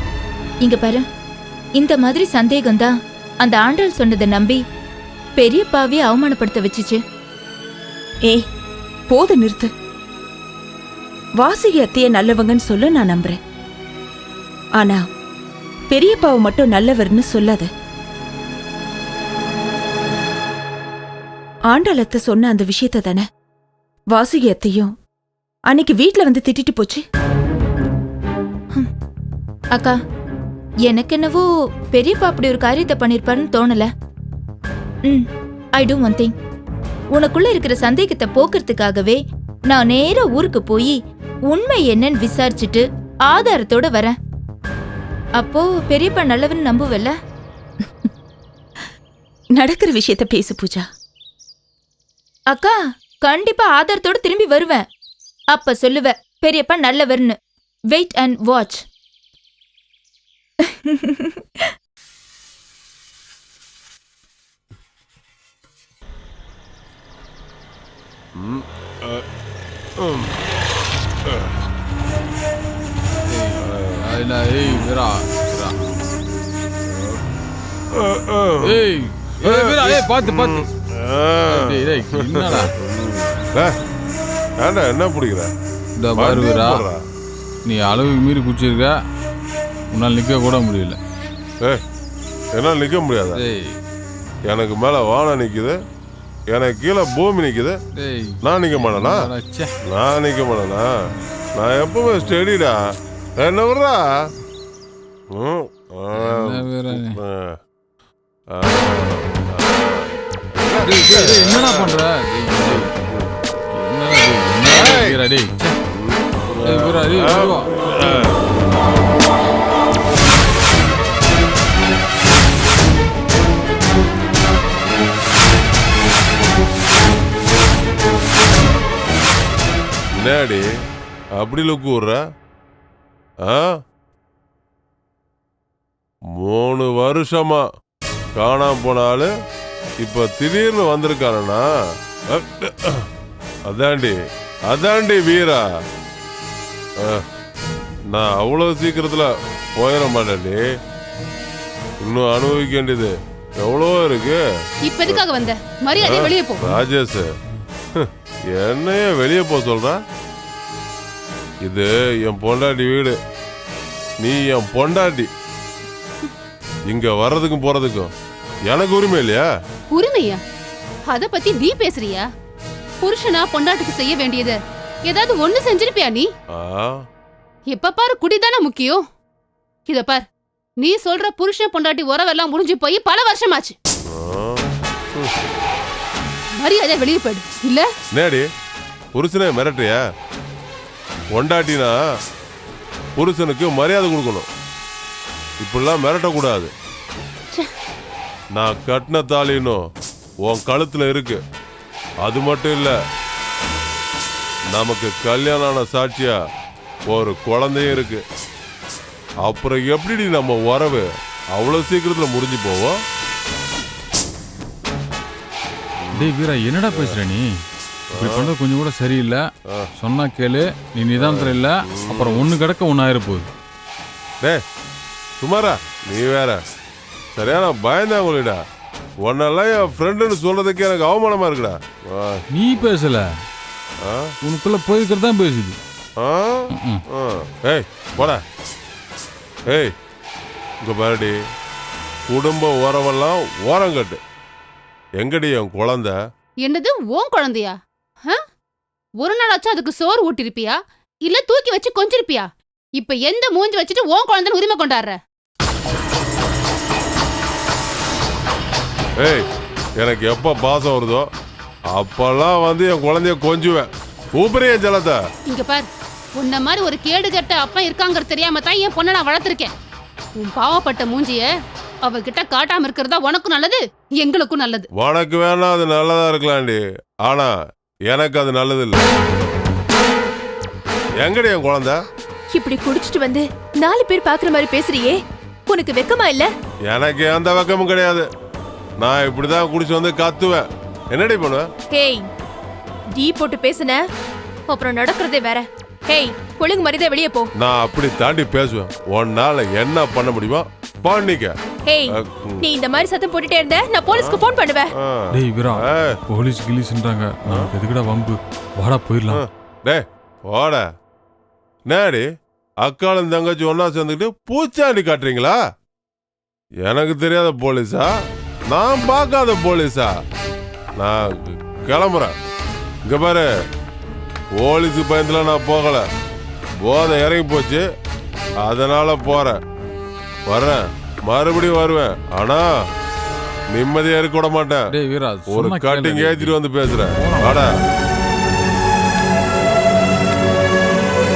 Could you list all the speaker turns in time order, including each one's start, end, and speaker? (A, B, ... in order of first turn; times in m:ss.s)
0:00.6-0:01.0 A
0:01.8-0:04.6 A
0:05.4-0:07.0 A
0:09.1-0:09.7 B
0:11.4-0:13.4 B
0:14.8-0:15.0 B
0:15.9-0:17.7 B
0:21.7-0:23.2 B
0:24.1-0:24.9 B
0:25.7-0:27.0 B
0:30.8-0:33.9 A
0:35.8-0:36.3 A
0:37.1-0:41.0 A
0:41.5-0:44.2 A
0:45.4-0:47.1 A
0:49.6-0:50.9 B
0:52.5-0:54.8 A
0:55.5-0:57.4 A
0:57.9-0:58.8 A
1:00.8-1:01.4 A
1:08.4-1:09.2 C
1:10.0-1:10.3 C
1:13.6-1:14.0 C
1:14.2-1:15.8 D
1:16.9-1:17.2 C
1:17.9-1:23.7 C
1:18.7-1:20.6 D
1:21.6-1:22.7 D
1:24.6-1:25.5 C
1:26.0-1:26.8 D
1:26.1-1:27.0 C
1:27.6-1:28.9 D
1:29.9-1:31.0 D
1:32.5-1:33.4 C
1:33.4-1:33.7 D
1:34.5-1:35.8 C
1:36.5-1:37.8 C
1:38.0-1:38.4 D
1:38.4-1:39.3 C
1:38.9-1:39.7 D
1:39.9-1:40.9 C
1:41.6-1:42.7 C
1:43.4-1:44.0 C
1:45.3-1:47.6 C
1:46.2-1:47.2 D
1:48.5-1:52.0 C
1:50.9-1:52.8 D
1:52.7-1:53.2 C
1:53.7-1:55.7 D
1:54.7-1:55.2 C
1:55.9-1:58.4 C
1:56.8-1:57.6 D
2:10.2-2:10.6 C
2:11.4-2:12.2 C
2:16.4-2:17.6 C
2:18.4-2:19.3 C
2:20.0-2:21.6 C
2:22.3-2:23.0 C
2:23.7-2:24.1 C
2:24.7-2:25.6 C
2:28.1-2:30.6 C
2:32.0-2:34.4 C
2:34.9-2:36.8 E
2:36.0-2:37.2 C
2:38.0-2:40.0 C
2:41.6-2:43.1 C
2:44.2-2:45.3 C
2:46.9-2:48.1 C
2:48.7-2:49.4 C
2:49.9-2:50.4 E
2:51.1-2:52.2 E
2:53.0-2:54.6 E
2:55.1-2:56.3 E
2:56.6-2:56.9 C
2:57.7-2:59.0 E
2:59.9-3:00.2 E
3:00.8-3:03.7 E
3:04.1-3:04.6 C
3:06.6-3:07.8 E
3:08.1-3:08.4 C
3:09.1-3:10.0 C
3:11.3-3:11.9 C
3:13.2-3:14.4 C
3:15.6-3:16.7 C
3:18.6-3:19.8 C
3:20.4-3:21.4 C
3:22.2-3:22.9 C
3:24.8-3:26.3 C
3:27.1-3:28.2 C
3:29.4-3:33.0 C
3:36.0-3:37.2 C
3:36.2-3:37.4 D
3:38.1-3:38.5 C
3:38.2-3:39.4 D
3:40.0-3:43.5 D
3:41.1-3:42.5 C
3:45.4-3:46.6 C
3:47.4-3:48.6 C
3:49.2-3:52.4 C
3:52.5-3:53.2 D
3:54.0-3:54.3 C
3:54.4-3:55.8 D
3:56.2-3:58.4 C
4:00.8-4:01.3 C
4:02.3-4:04.2 C
4:05.2-4:06.1 C
4:06.6-4:08.4 E
4:09.2-4:12.4 E
4:13.0-4:15.2 E
4:20.0-4:21.3 C
4:21.9-4:25.2 C
4:25.5-4:25.9 E
4:26.4-4:29.7 E
4:30.4-4:31.5 E
4:32.0-4:34.8 E
4:35.0-4:37.5 C
4:38.1-4:39.0 C
4:41.2-4:42.0 C
4:42.6-4:43.4 F
4:44.0-4:45.1 F
4:45.7-4:46.4 F
4:46.9-4:48.2 C
4:49.0-4:51.7 C
4:53.2-4:53.9 F
4:54.8-4:55.6 F
4:56.6-4:57.5 F
4:57.6-5:01.5 C
5:02.1-5:02.7 C
5:02.8-5:04.8 F
5:04.1-5:06.2 C
5:05.4-5:05.7 D
5:06.3-5:09.3 D
5:07.4-5:07.7 C
5:09.3-5:10.8 C
5:11.9-5:12.2 C
5:12.8-5:15.5 C
5:16.8-5:18.1 C
5:18.7-5:20.1 C
5:21.0-5:22.3 C
5:23.0-5:23.5 C
5:24.6-5:26.0 C
5:26.8-5:27.8 C
5:28.6-5:29.6 C
5:30.5-5:32.6 C
5:33.7-5:35.0 C
5:35.0-5:36.5 D
5:35.5-5:37.8 C